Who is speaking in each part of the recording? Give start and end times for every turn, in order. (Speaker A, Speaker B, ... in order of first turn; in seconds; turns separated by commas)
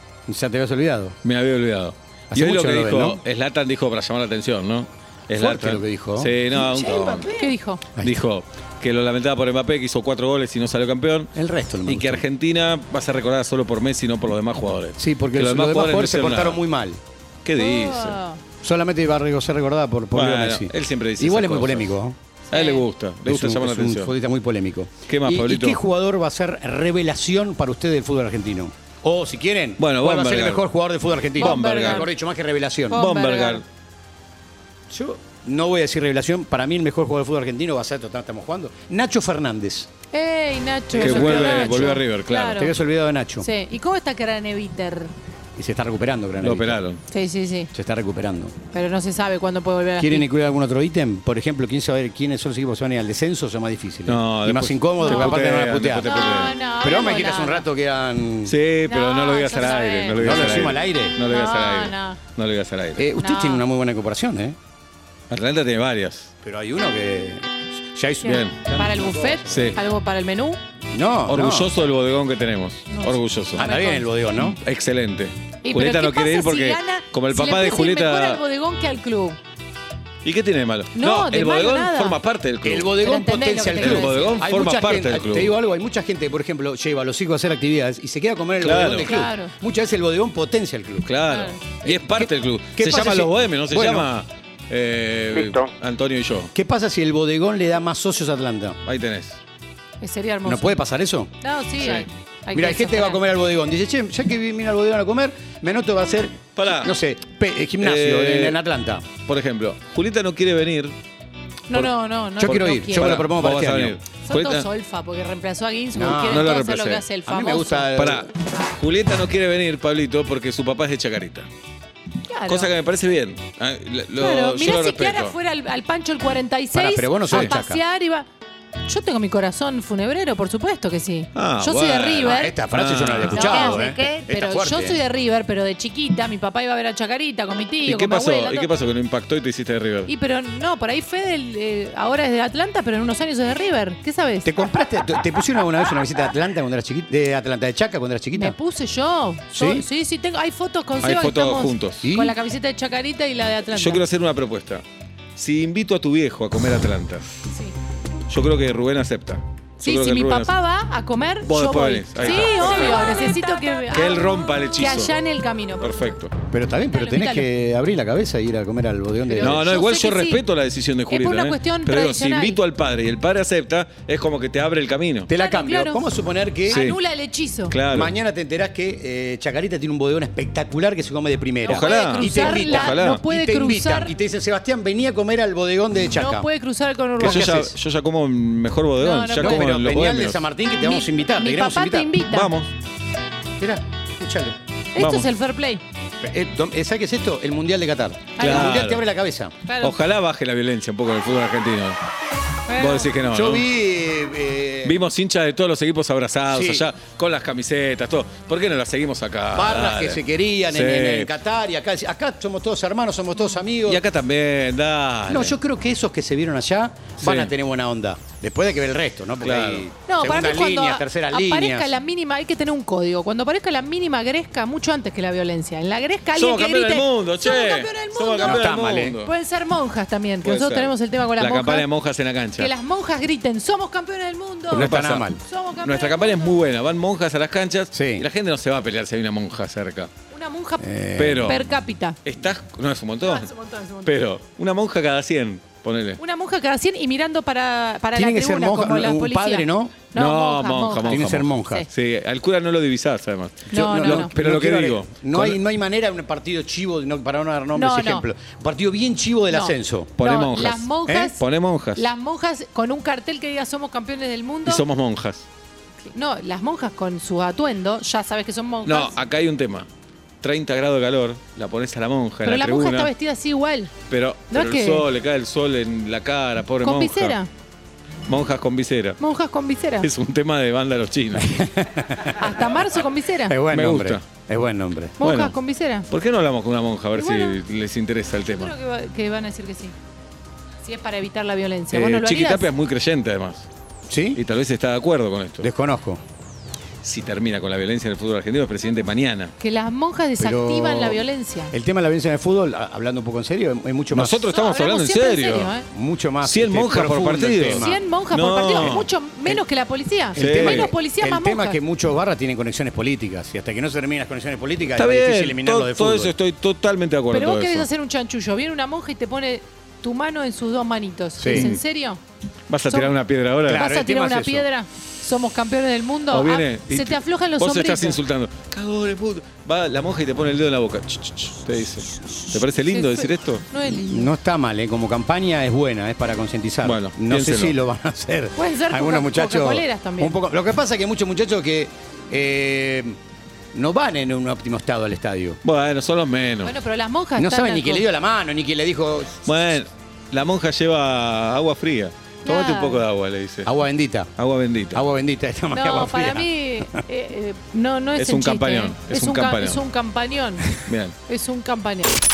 Speaker A: 0.3-1.1, Speaker B: 1.2-7.3, Speaker A: 2.3-3.2, Speaker A: 5.3-8.2, Speaker C: 7.3-7.8, Speaker B: 8.0-11.3, Speaker A: 11.3-12.2, Speaker B: 11.8-16.6, Speaker A: 15.0-17.0, Speaker B: 17.4-18.2, Speaker C: 17.6-18.4, Speaker A: 18.6-22.1, Speaker B: 20.1-21.9, Speaker B: 22.5-24.1, Speaker C: 22.5-22.8, Speaker A: 23.2-33.0, Speaker B: 25.1-25.8, Speaker B: 29.8-30.6, Speaker C: 31.4-32.1, Speaker B: 31.4-32.1, Speaker C: 32.9-33.6, Speaker B: 32.9-33.6, Speaker A: 34.9-39.9, Speaker C: 40.1-42.7, Speaker A: 40.9-42.0, Speaker B: 41.0-42.7, Speaker A: 42.6-43.5, Speaker C: 43.4-45.1, Speaker A: 45.6-46.8, Speaker B: 46.4-47.0, Speaker C: 47.1-47.7, Speaker A: 47.7-48.5, Speaker C: 48.7-50.3, Speaker A: 50.0-58.5, Speaker B: 54.1-56.6, Speaker C: 55.0-55.4, Speaker C: 56.0-57.6, Speaker B: 58.5-63.1, Speaker C: 58.9-60.5, Speaker A: 60.2-61.1, Speaker C: 61.2-62.2, Speaker A: 63.0-64.5, Speaker C: 63.2-63.6, Speaker B: 65.3-66.3, Speaker A: 66.4-69.8, Speaker B: 68.2-68.6, Speaker C: 68.6-70.6, Speaker B: 69.5-69.8, Speaker A: 70.9-71.7, Speaker B: 71.3-73.7, Speaker C: 72.9-74.1, Speaker A: 73.5-74.6, Speaker B: 74.3-78.4, Speaker C: 75.6-79.4, Speaker B: 80.2-82.9, Speaker C: 80.9-82.2, Speaker A: 82.6-91.1, Speaker C: 83.0-84.4, Speaker B: 83.7-85.5, Speaker B: 88.6-89.2, Speaker C: 89.0-89.5, Speaker B: 91.0-96.5, Speaker C: 91.3-91.6, Speaker A: 91.8-94.1, Speaker A: 96.5-98.8, Speaker B: 98.8-99.4, Speaker C: 100.0-100.8, Speaker A: 100.4-101.3, Speaker C: 101.4-103.2, Speaker B: 101.8-102.1, Speaker A: 102.5-109.1, Speaker B: 106.5-107.0, Speaker B: 107.8-108.6, Speaker B: 109.2-111.0, Speaker C: 111.7-113.2, Speaker B: 111.7-114.7, Speaker A: 112.4-114.0, Speaker C: 114.2-117.9, Speaker A: 115.9-116.5, Speaker B: 116.1-117.0, Speaker A: 117.2-118.3, Speaker B: 117.9-121.5, Speaker C: 122.2-122.7, Speaker B: 122.5-125.3, Speaker C: 124.2-128.3, Speaker A: 126.7-127.8, Speaker C: 128.8-132.6, Speaker B: 131.3-133.9, Speaker A: 132.2-135.0, Speaker C: 133.3-138.7, Speaker B: 137.8-140.1, Speaker C: 140.1-144.5, Speaker A: 144.4-148.6, Speaker C: 148.3-154.0, Speaker A: 149.5-149.8, Speaker B: 151.0-152.1, Speaker A: 152.0-152.4, Speaker B: 153.7-154.8, Speaker B: 155.3-157.3, Speaker C: 157.4-157.7, Speaker B: 158.3-160.5, Speaker C: 159.8-166.1, Speaker B: 161.4-163.3, Speaker B: 163.9-165.1, Speaker B: 165.8-166.3, Speaker A: 166.5-169.7, Speaker C: 166.8-167.5, Speaker C: 169.2-170.4, Speaker B: 169.4-175.3, Speaker C: 171.1-172.6, Speaker A: 175.3-176.8, Speaker C: 175.3-176.0, Speaker C: 176.7-177.8, Speaker B: 176.7-177.0, Speaker B: 177.7-178.1, Speaker A: 177.9-186.5, Speaker C: 181.7-184.1, Speaker B: 181.7-183.2, Speaker C: 186.1-187.5, Speaker A: 187.2-187.7, Speaker B: 187.2-190.4, Speaker C: 189.0-189.8, Speaker A: 189.4-192.2, Speaker C: 190.8-192.5, Speaker B: 192.3-192.7, Speaker A: 193.6-194.6, Speaker C: 194.9-195.8, Speaker B: 195.0-195.3, Speaker A: 196.2-199.5, Speaker C: 198.4-198.8, Speaker B: 198.4-199.0, Speaker C: 199.6-200.0, Speaker B: 199.8-202.0, Speaker C: 202.7-203.1, Speaker B: 202.7-203.7, Speaker A: 203.3-205.0, Speaker B: 204.8-211.3, Speaker A: 206.5-206.9, Speaker A: 209.5-214.0, Speaker B: 213.8-215.6, Speaker A: 215.3-222.0, Speaker B: 217.2-217.5, Speaker B: 219.4-219.8, Speaker C: 220.1-228.7, Speaker B: 226.3-229.3, Speaker A: 228.4-229.2, Speaker C: 229.2-231.9, Speaker B: 230.4-232.7, Speaker C: 232.6-236.6, Speaker A: 234.7-235.4, Speaker B: 234.7-235.3, Speaker B: 235.8-240.1, Speaker A: 237.9-238.2, Speaker C: 240.3-242.2, Speaker A: 240.8-241.6, Speaker B: 241.2-241.7, Speaker B: 242.2-243.5, Speaker C: 243.2-244.1, Speaker B: 244.0-246.2, Speaker C: 246.2-251.9, Speaker A: 248.1-250.0, Speaker B: 250.1-255.6, Speaker A: 251.1-251.9, Speaker C: 253.7-254.3, Speaker A: 253.7-260.1, Speaker C: 257.7-258.2, Speaker C: 259.5-261.4, Speaker B: 260.2-262.1, Speaker A: 261.1-261.3, Speaker C: 261.9-264.8, Speaker B: 264.6-265.4, Speaker C: 266.1-269.1, Speaker B: 268.8-269.9, Speaker B: 270.4-273.1, Speaker C: 272.4-273.9, Speaker B: 274.1-277.4, Speaker C: 274.5-275.1, Speaker C: 276.8-277.5, Speaker B: 278.3-279.2, Speaker C: 279.2-280.1, Speaker B: 280.0-281.6, Speaker A: 281.4-282.3, Speaker C: 282.3-283.6, Speaker A: 283.5-285.2, Speaker B: 283.7-284.2, Speaker C: 285.2-286.1, Speaker B: 285.2-285.5, Speaker B: 286.1-288.7, Speaker C: 287.1-287.6, Speaker C: 288.4-289.9, Speaker C: 290.8-292.7, Speaker B: 291.9-293.6, Speaker A: 294.1-294.4, Speaker B: 294.3-295.7, Speaker A: 295.6-296.2, Speaker B: 297.0-299.5, Speaker C: 299.6-301.7, Speaker A: 300.4-304.4, Speaker B: 304.1-305.7, Speaker C: 304.5-305.9, Speaker A: 305.9-308.0, Speaker B: 306.4-309.1, Speaker C: 307.7-311.8, Speaker A: 308.8-309.6, Speaker A: 310.3-316.3, Speaker B: 310.3-310.9, Speaker B: 314.9-317.9, Speaker C: 317.3-322.2, Speaker A: 321.4-321.8, Speaker B: 321.5-321.8, Speaker B: 322.7-323.9, Speaker C: 322.9-323.1, Speaker A: 323.6-324.6, Speaker C: 323.7-328.2, Speaker B: 326.3-333.6, Speaker C: 332.8-334.3, Speaker A: 333.9-343.1, Speaker B: 336.8-337.8, Speaker C: 338.5-340.4, Speaker A: 343.7-345.6, Speaker B: 345.6-346.7, Speaker C: 346.6-348.1, Speaker A: 347.4-349.8, Speaker B: 349.4-353.7, Speaker C: 352.4-353.0, Speaker A: 353.6-354.3, Speaker B: 354.4-355.0, Speaker A: 354.9-357.0, Speaker C: 355.7-362.1, Speaker B: 358.1-359.8, Speaker B: 360.7-361.1